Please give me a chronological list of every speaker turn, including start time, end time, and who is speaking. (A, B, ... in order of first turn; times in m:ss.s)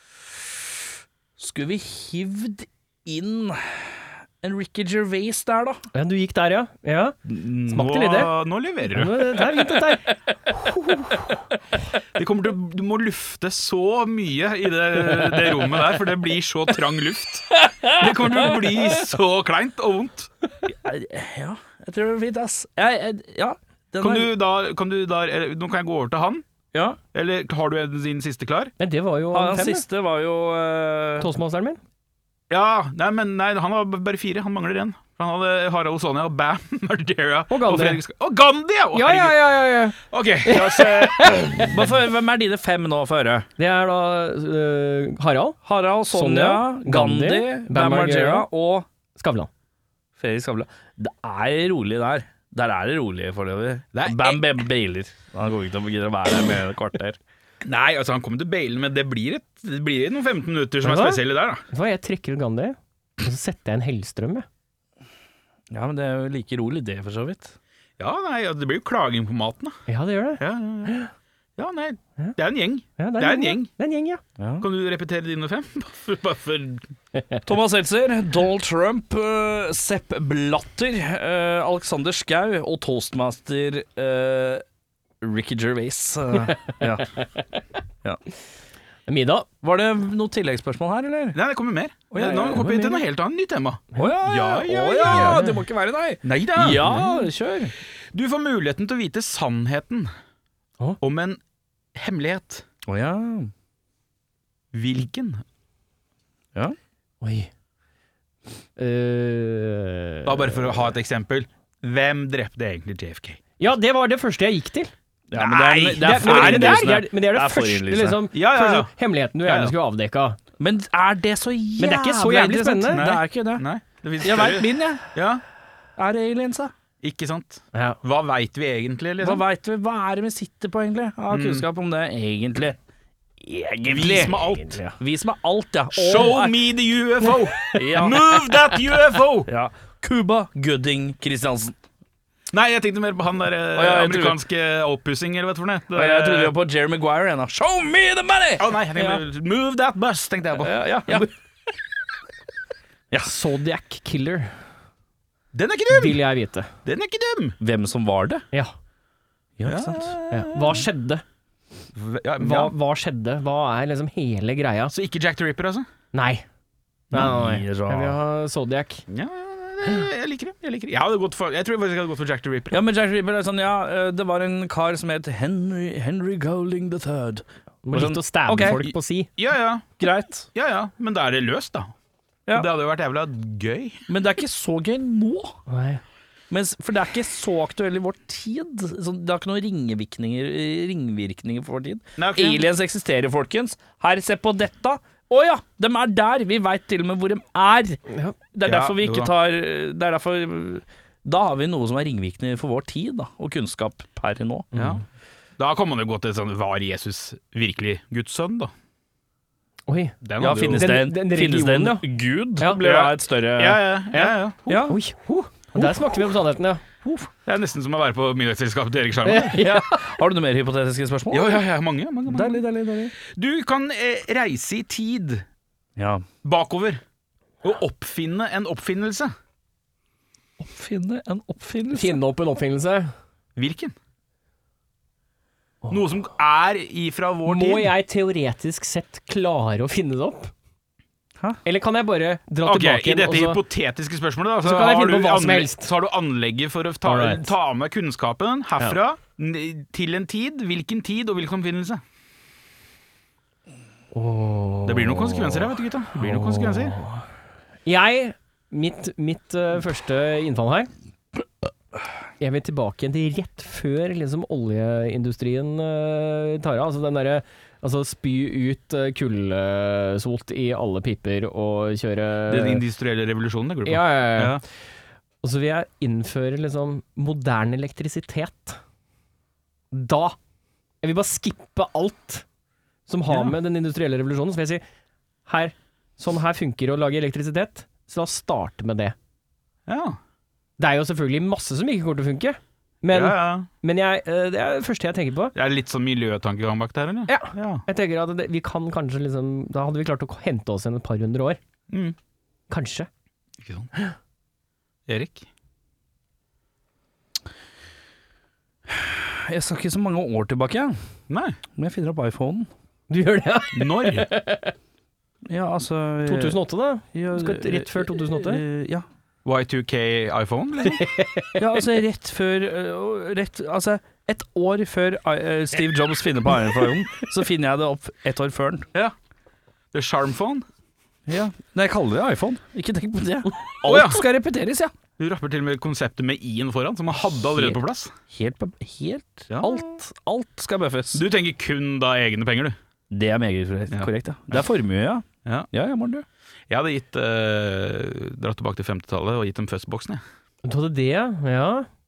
0:01.4-0:05.9 A
0:05.9-0:07.2 B
0:07.3-0:09.3 C
0:07.7-0:08.3 B
0:08.9-0:11.3 B
0:12.2-0:20.3 C
0:17.6-0:18.9 A
0:20.6-0:24.3 A
0:24.0-0:26.4 C
0:27.1-0:28.7 C
0:28.8-0:29.8 B
0:29.3-0:31.3 A
0:31.2-0:31.8 B
0:32.5-0:41.9 C
0:37.5-0:38.0 B
0:38.9-0:41.8 B
0:41.7-0:43.5 A
0:43.6-0:45.6 B
0:45.7-0:48.9 A
0:46.1-0:48.5 B
0:49.2-0:49.5 B
0:50.2-0:57.2 A
0:53.9-0:54.5 C
0:57.6-1:01.6 C
1:00.8-1:04.5 B
1:05.7-1:07.6 A
1:08.0-1:09.8 C
1:09.9-1:11.1 B
1:10.4-1:11.0 C
1:11.6-1:13.7 C
1:13.0-1:14.2 B
1:14.4-1:14.7 A
1:14.6-1:16.9 C
1:17.5-1:24.6 A
1:25.2-1:27.2 A
1:26.5-1:26.8 B
1:29.1-1:29.5 B
1:29.6-1:31.4 A
1:31.3-1:35.5 C
1:32.1-1:32.7 A
1:32.2-1:33.0 B
1:34.0-1:37.7 A
1:35.0-1:35.6 B
1:36.2-1:37.1 C
1:36.9-1:37.2 B
1:38.1-1:40.1 C
1:41.0-1:41.4 C
1:42.0-1:42.6 C
1:42.9-1:43.5 A
1:44.7-1:45.4 C
1:47.2-1:47.5 B
1:48.8-1:50.9 B
1:50.3-1:53.4 C
1:53.6-1:54.9 B
1:55.3-1:58.2 A
1:55.3-1:57.0 C
1:56.0-2:00.4 B
1:58.3-1:58.9 C
1:59.4-1:59.8 C
2:00.6-2:03.7 A
2:01.8-2:03.0 B
2:02.9-2:05.4 C
2:04.2-2:05.1 A
2:06.0-2:06.7 A
2:07.0-2:09.4 C
2:09.2-2:12.8 A
2:11.3-2:11.7 C
2:13.4-2:14.4 A
2:13.9-2:14.8 C
2:14.3-2:14.9 B
2:15.0-2:16.6 A
2:15.9-2:19.5 C
2:17.7-2:18.2 A
2:19.4-2:21.8 A
2:22.5-2:26.6 C
2:23.8-2:24.4 A
2:25.9-2:29.2 A
2:28.6-2:31.3 C
2:30.6-2:31.3 A
2:33.2-2:34.5 B
2:35.5-2:36.2 C
2:35.9-2:36.7 B
2:36.8-2:37.6 C
2:37.6-2:38.5 A
2:39.6-2:40.1 A
2:39.6-2:40.9 C
2:40.3-2:41.2 B
2:41.9-2:42.7 C
2:42.4-2:44.9 B
2:44.9-2:45.9 C
2:46.1-2:46.4 B
2:47.1-2:49.0 B
2:47.1-2:48.2 A
2:49.1-2:52.8 C
2:52.7-2:58.8 A
2:57.8-2:59.3 B
2:58.8-3:00.0 C
3:00.0-3:00.5 A
3:00.6-3:01.9 C
3:02.5-3:04.0 C
3:04.1-3:05.6 A
3:05.7-3:06.0 B
3:06.5-3:18.0 A
3:12.2-3:12.7 C
3:18.1-3:18.4 B
3:18.5-3:24.7 A
3:18.6-3:19.3 C
3:24.7-3:25.0 B
3:24.8-3:25.0 C
3:25.6-3:28.7 C
3:29.9-3:32.0 B
3:30.2-3:30.9 C
3:30.4-3:33.9 A
3:32.8-3:34.9 C
3:34.1-3:36.8 B
3:34.7-3:35.0 A
3:37.0-3:37.3 A
3:37.4-3:39.6 C
3:39.3-3:40.0 B
3:39.5-3:41.6 A
3:41.3-3:42.6 C
3:42.3-3:43.1 A
3:43.2-3:45.4 C
3:46.0-3:46.2 A
3:46.4-3:47.0 C
3:47.6-3:49.3 C
3:50.6-3:52.2 A
3:51.9-3:53.1 B
3:53.6-3:54.0 C
3:55.9-3:57.9 C
3:57.5-4:00.5 B
4:01.6-4:03.6 B
4:02.6-4:12.0 C
4:04.6-4:05.9 B
4:07.0-4:07.5 B
4:14.1-4:17.2 B
4:14.8-4:17.0 C
4:17.9-4:20.9 B
4:22.4-4:32.8 B
4:32.5-4:34.6 C
4:33.9-4:34.6 B
4:35.4-4:38.8 B
4:39.9-4:40.4 B
4:41.0-4:42.4 B
4:43.1-4:44.8 B
4:43.3-4:43.6 C
4:45.5-4:49.2 B
4:49.9-4:50.2 C
4:50.8-4:55.6 B
4:53.1-4:53.7 C
4:55.6-4:57.8 C
4:57.3-5:01.6 B
5:01.9-5:02.2 C
5:02.7-5:03.1 B
5:03.6-5:03.9 C
5:05.1-5:05.5 C
5:08.9-5:11.0 A
5:11.3-5:11.6 C
5:11.8-5:12.7 A
5:13.1-5:14.7 B
5:13.7-5:14.3 C
5:15.5-5:16.6 A
5:16.2-5:18.6 B
5:17.1-5:19.0 A
5:19.4-5:21.0 C
5:20.8-5:21.6 B
5:21.6-5:28.9 A
5:29.9-5:30.6 C
5:31.3-5:34.9 A
5:33.8-5:34.2 C
5:35.2-5:38.1 C
5:38.3-5:41.2 A
5:39.5-5:39.8 C
5:41.1-5:42.8 C
5:43.1-5:46.2 A
5:43.9-5:44.6 C
5:46.7-5:50.2 C
5:50.6-5:51.9 B